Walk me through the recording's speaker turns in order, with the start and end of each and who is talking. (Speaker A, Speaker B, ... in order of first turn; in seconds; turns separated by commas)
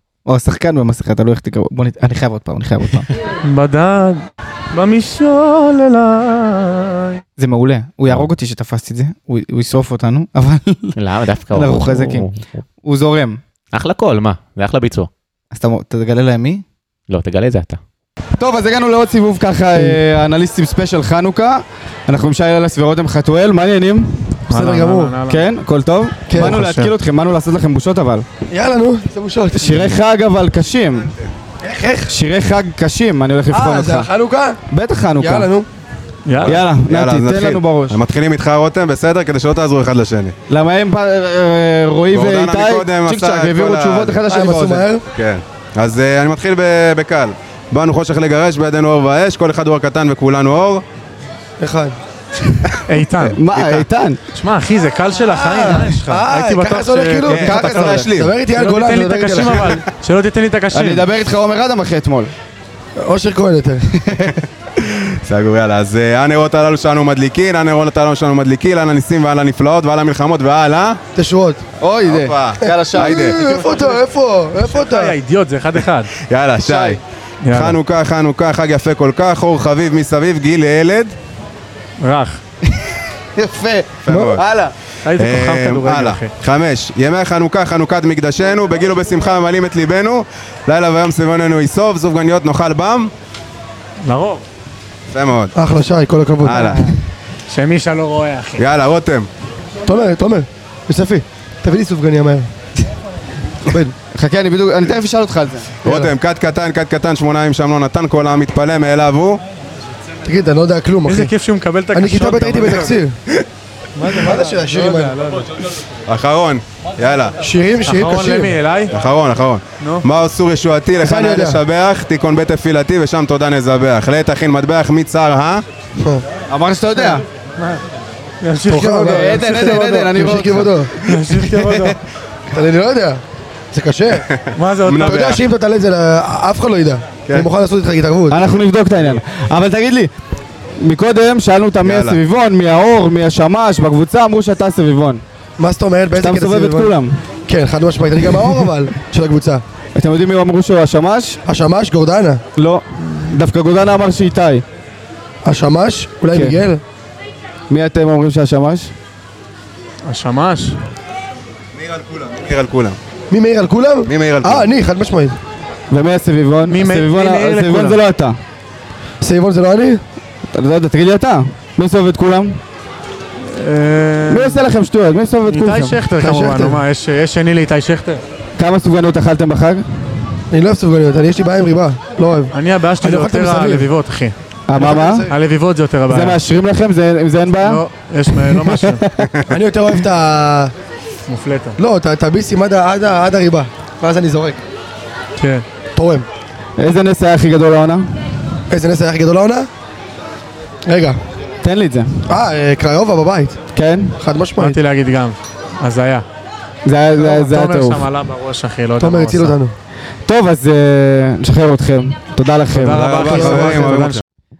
Speaker A: 0.2-3.1, Speaker B: 3.4-7.2, Speaker A: 7.4-10.9, Speaker C: 10.9-12.5, Speaker A: 11.5-12.3, Speaker A: 12.8-13.4, Speaker C: 13.7-15.1, Speaker A: 15.5-16.6, Speaker C: 17.1-17.8, Speaker A: 18.4-24.4, Speaker B: 24.5-25.4, Speaker D: 24.5-25.2, Speaker A: 25.2-28.2, Speaker D: 26.3-26.6, Speaker B: 26.3-26.9, Speaker D: 28.5-30.0, Speaker A: 29.5-31.1, Speaker D: 31.6-32.1, Speaker A: 32.0-34.1, Speaker D: 33.5-34.6, Speaker A: 34.7-35.5, Speaker D: 35.2-35.6, Speaker B: 36.2-36.6, Speaker A: 36.4-38.0, Speaker E: 36.8-40.3, Speaker A: 40.5-44.9, Speaker E: 42.1-44.2, Speaker D: 44.2-45.0, Speaker E: 45.1-50.8, Speaker D: 51.6-51.9, Speaker B: 52.9-53.4, Speaker A: 53.2-54.2, Speaker B: 54.4-57.7, Speaker D: 55.3-59.6, Speaker E: 57.3-58.4, Speaker A: 57.4-58.1, Speaker B: 58.5-61.0, Speaker A: 60.7-62.3, Speaker D: 63.0-63.9, Speaker A: 64.0-64.4, Speaker E: 65.2-71.0, Speaker D: 71.1-71.6, Speaker A: 71.8-73.3, Speaker E: 72.1-73.4, Speaker D: 72.6-75.1, Speaker B: 73.5-74.0, Speaker B: 74.6-76.1, Speaker E: 76.2-81.1, Speaker A: 76.6-77.0, Speaker B: 77.4-77.8, Speaker B: 82.0-82.4, Speaker A: 82.8-84.7, Speaker E: 84.1-84.4, Speaker B: 85.0-86.3, Speaker E: 85.1-93.1, Speaker B: 94.0-94.4, Speaker E: 95.1-95.5, Speaker D: 95.5-96.9, Speaker E: 96.4-96.9, Speaker B: 97.5-98.6, Speaker E: 98.6-99.3, Speaker D: 99.8-102.5, Speaker D: 103.7-103.9, Speaker A: 104.1-106.1, Speaker E: 105.8-109.4, Speaker D: 110.2-111.3, Speaker B: 111.0-113.0, Speaker D: 111.9-113.1, Speaker B: 114.0-115.5, Speaker D: 114.1-115.1, Speaker E: 116.1-117.3, Speaker D: 117.4-118.5, Speaker B: 117.8-118.9, Speaker E: 118.9-125.6, Speaker B: 119.8-120.0, Speaker D: 121.0-121.6, Speaker D: 126.0-126.2, Speaker A: 126.5-127.2, Speaker B: 128.4-129.5, Speaker D: 128.6-130.9, Speaker A: 129.0-131.7, Speaker B: 131.0-132.0, Speaker D: 132.5-133.2, Speaker D: 133.7-134.2, Speaker E: 134.3-135.4, Speaker B: 134.6-135.4, Speaker D: 134.9-138.4, Speaker A: 138.3-140.1, Speaker A: 140.8-145.2, Speaker E: 141.8-142.2, Speaker D: 145.6-146.9, Speaker A: 146.1-147.2, Speaker D: 147.5-149.6, Speaker A: 149.9-151.4, Speaker D: 151.4-152.4, Speaker A: 152.6-154.6, Speaker D: 155.4-156.8, Speaker A: 156.3-156.6, Speaker A: 157.7-158.9, Speaker B: 160.1-160.8, Speaker E: 161.8-163.0, Speaker D: 163.3-165.3, Speaker E: 164.1-164.7, Speaker A: 165.9-168.4, Speaker B: 166.7-168.0, Speaker D: 169.2-170.0, Speaker A: 170.5-172.6, Speaker B: 173.5-174.6, Speaker A: 174.3-176.0, Speaker B: 175.4-178.2, Speaker D: 176.1-176.8, Speaker A: 178.6-179.8, Speaker D: 180.5-183.9, Speaker B: 182.5-186.4, Speaker A: 184.7-185.3, Speaker D: 184.8-185.3, Speaker A: 186.1-189.1, Speaker B: 187.5-189.0, Speaker D: 189.5-190.7, Speaker B: 191.3-191.8, Speaker D: 191.8-194.6, Speaker B: 195.4-195.6, Speaker D: 195.9-196.3, Speaker A: 196.8-198.1, Speaker D: 198.7-199.7, Speaker D: 200.8-201.2, Speaker A: 201.6-202.3, Speaker D: 202.3-203.6, Speaker A: 203.7-204.2, Speaker D: 204.2-204.8, Speaker B: 204.6-206.2, Speaker A: 206.8-208.1, Speaker B: 207.2-209.6, Speaker D: 209.0-209.7, Speaker A: 210.2-214.0, Speaker B: 212.7-214.2, Speaker E: 212.9-214.2, Speaker D: 213.3-213.9